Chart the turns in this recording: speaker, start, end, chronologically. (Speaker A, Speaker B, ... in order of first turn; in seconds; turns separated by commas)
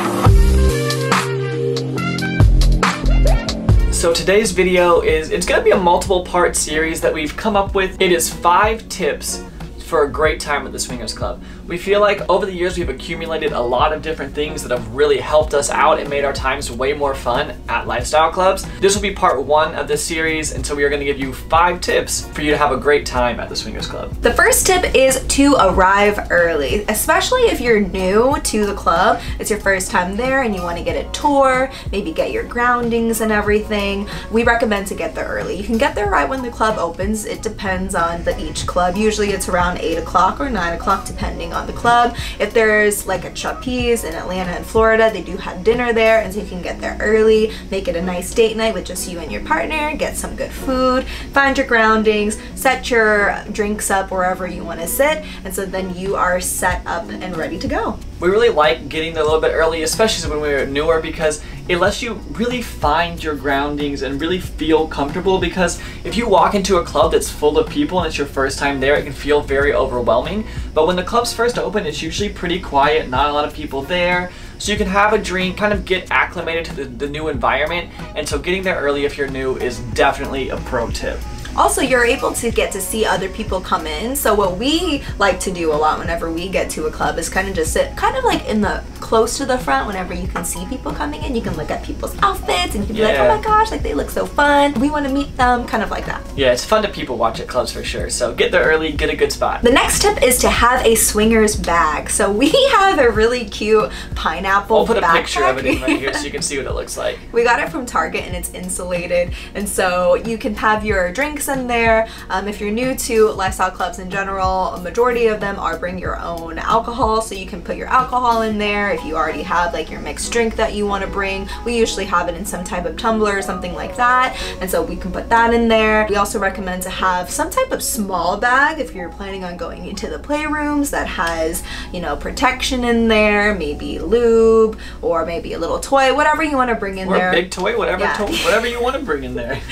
Speaker A: 3.9-24.1, Speaker B: 24.2-58.0, Speaker A: 58.2-81.2, Speaker B: 81.6-96.2, Speaker A: 92.9-93.4, Speaker A: 96.4-99.6, Speaker B: 99.6-106.3, Speaker A: 104.7-107.2, Speaker B: 107.3-137.4, Speaker A: 137.1-139.6, Speaker B: 138.0-138.8